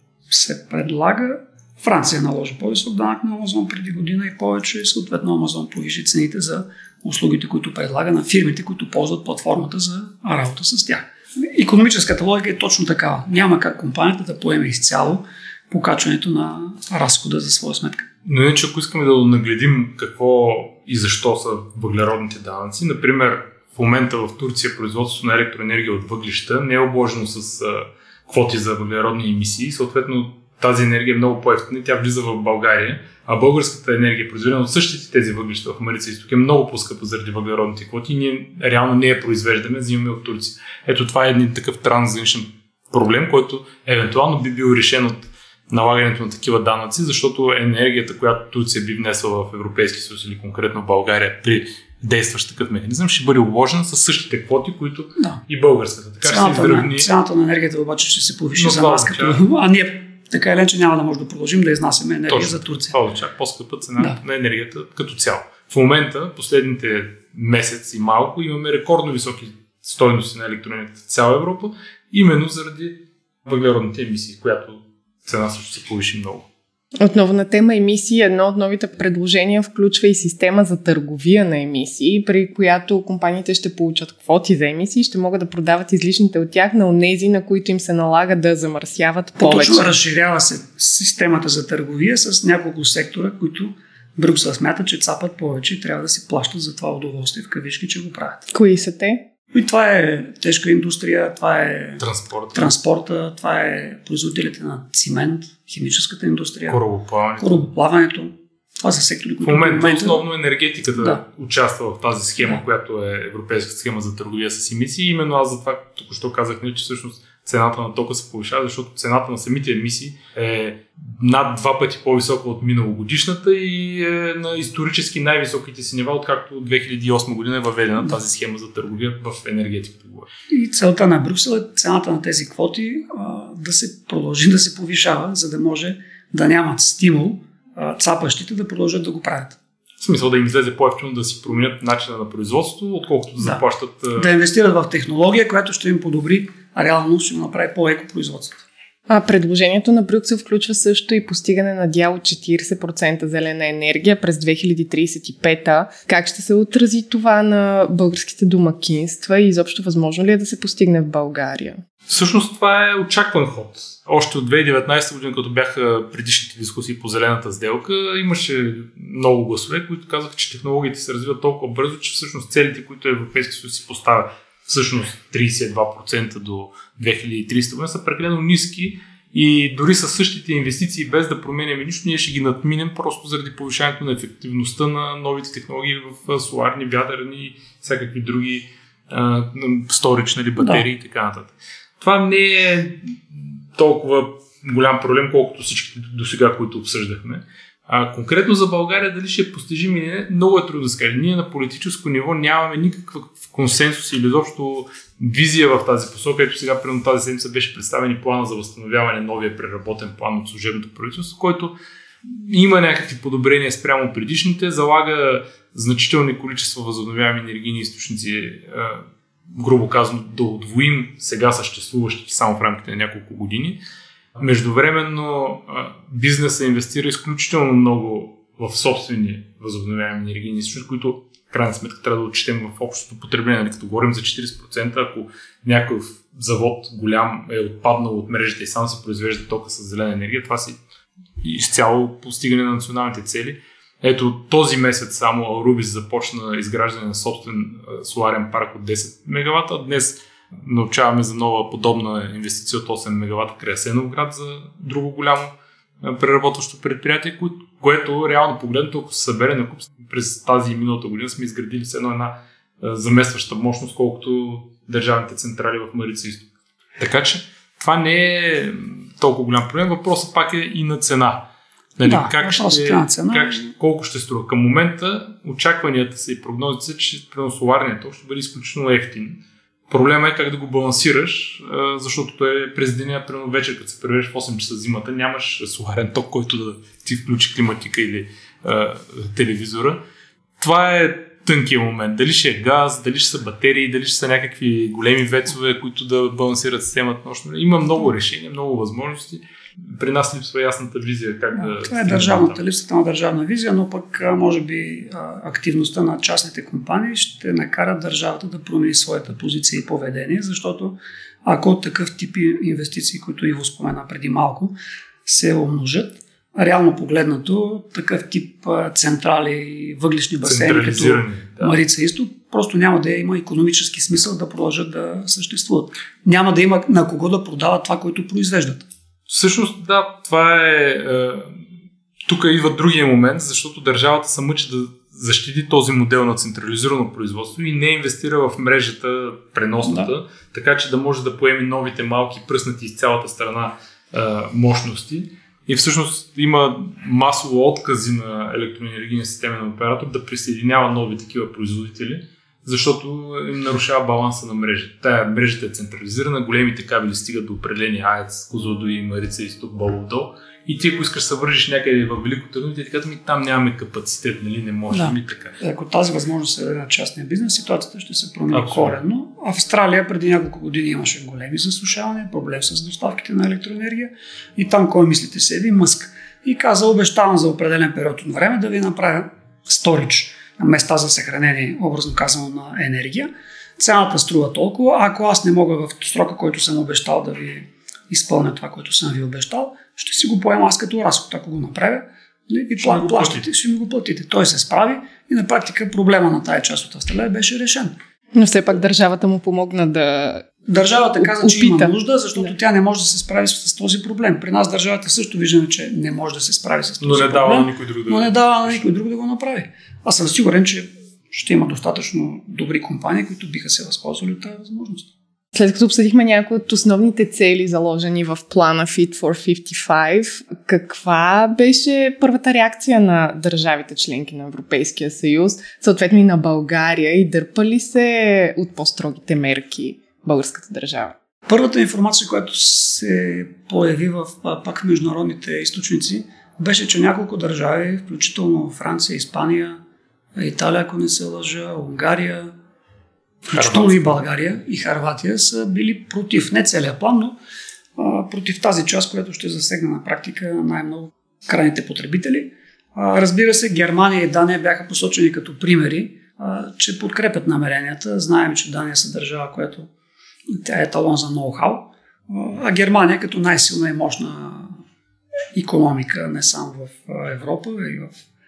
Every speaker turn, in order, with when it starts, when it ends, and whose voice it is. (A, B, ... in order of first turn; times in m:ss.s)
0:00.3-0:18.0 A
0:18.2-0:57.1 B
0:56.2-1:03.0 A
0:58.6-0:59.4 B
1:02.3-1:16.5 B
1:17.0-1:29.9 C
1:29.4-1:38.5 A
1:38.5-1:39.2 C
1:39.5-1:42.0 A
1:42.0-1:42.7 B
1:42.5-1:46.8 A
1:46.7-1:47.7 B
1:47.4-1:50.2 A
1:49.4-2:10.3 B
2:10.5-2:19.6 A
2:20.0-2:24.3 B
2:24.2-2:28.6 A
2:29.1-2:41.8 C
2:42.1-3:43.8 B
3:10.6-3:10.8 A
3:44.4-4:00.8 B
4:01.4-4:26.4 B
4:27.0-4:31.4 B
4:32.0-4:50.0 B
4:32.0-4:33.7 A
4:50.6-5:02.6 B
5:01.5-5:28.8 A
5:20.4-5:21.8 B
5:29.3-5:31.6 B
5:32.2-6:05.6 B
5:39.8-5:40.1 A
6:04.9-6:37.9 A
6:08.5-6:09.0 B
6:32.8-6:33.4 B
6:38.3-6:40.5 C
6:40.7-6:55.1 A
6:41.2-6:41.9 C
6:47.0-6:48.8 B
6:55.5-7:11.1 C
7:11.5-7:19.8 A
7:20.4-7:22.5 A
7:23.5-7:27.4 A
7:23.5-7:24.2 B
7:28.0-7:39.9 A
7:40.6-7:44.8 A
7:45.5-7:48.2 A